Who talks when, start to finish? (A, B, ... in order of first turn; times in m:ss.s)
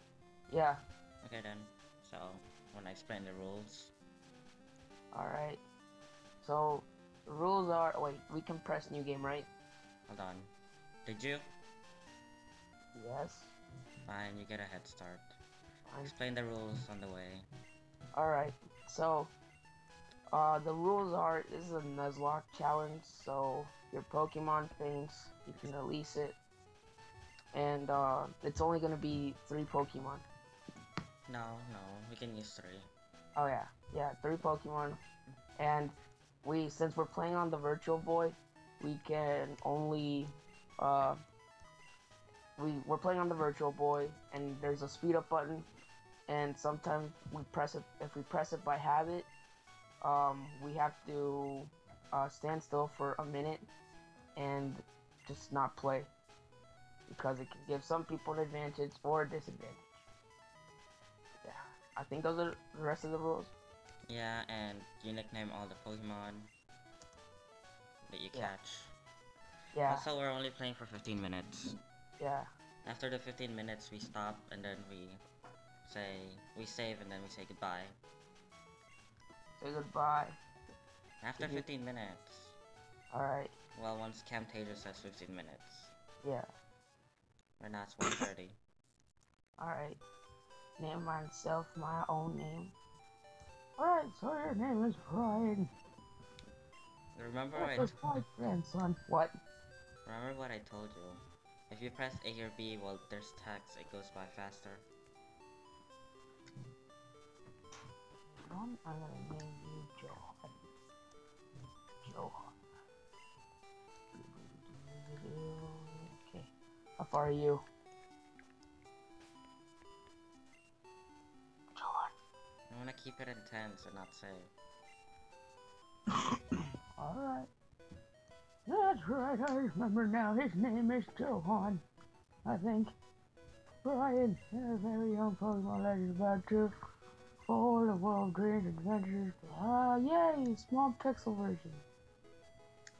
0:00.5-0:00.8 A
0:01.2-0:03.9 B
0:05.1-0:05.6 A
0:06.4-0:09.5 A
0:10.1-0:10.5 B
0:11.0-0:11.5 B
0:12.9-0:13.5 A
0:14.1-0:15.4 B
0:15.8-0:16.1 A
0:16.0-0:17.5 B
0:18.1-0:19.3 A
0:20.3-0:26.4 A
0:27.5-0:30.2 A
0:31.3-0:32.9 B
0:33.4-0:35.0 A
0:35.6-0:41.2 A
0:42.6-0:45.7 A
0:46.3-0:49.3 A
0:50.0-0:53.7 A
0:54.4-0:56.1 A
0:57.1-1:00.0 A
1:01.4-1:03.5 A
1:04.1-1:06.5 B
1:08.1-1:08.9 B
1:09.7-1:10.1 A
1:09.9-1:11.7 B
1:12.2-1:12.5 A
1:12.8-1:15.2 B
1:15.8-1:18.0 B
1:19.6-1:20.4 A
1:21.2-1:22.6 B
1:21.4-1:21.6 A
1:23.1-1:23.5 A
1:23.8-1:25.9 B
1:26.2-1:26.5 A
1:27.6-1:28.6 B
1:29.6-1:30.0 A
1:30.8-1:32.7 A
1:33.8-1:35.7 A
1:37.1-1:37.9 B
1:37.6-1:39.3 A
1:40.0-1:44.8 B
1:48.3-1:50.5 A
1:52.0-1:52.5 A
1:54.2-1:57.6 A
2:01.8-2:02.1 A
2:02.7-2:04.5 B
2:07.0-2:07.5 A
2:08.7-2:11.8 A
2:12.4-2:12.9 A
2:13.8-2:16.7 A
2:17.4-2:21.8 A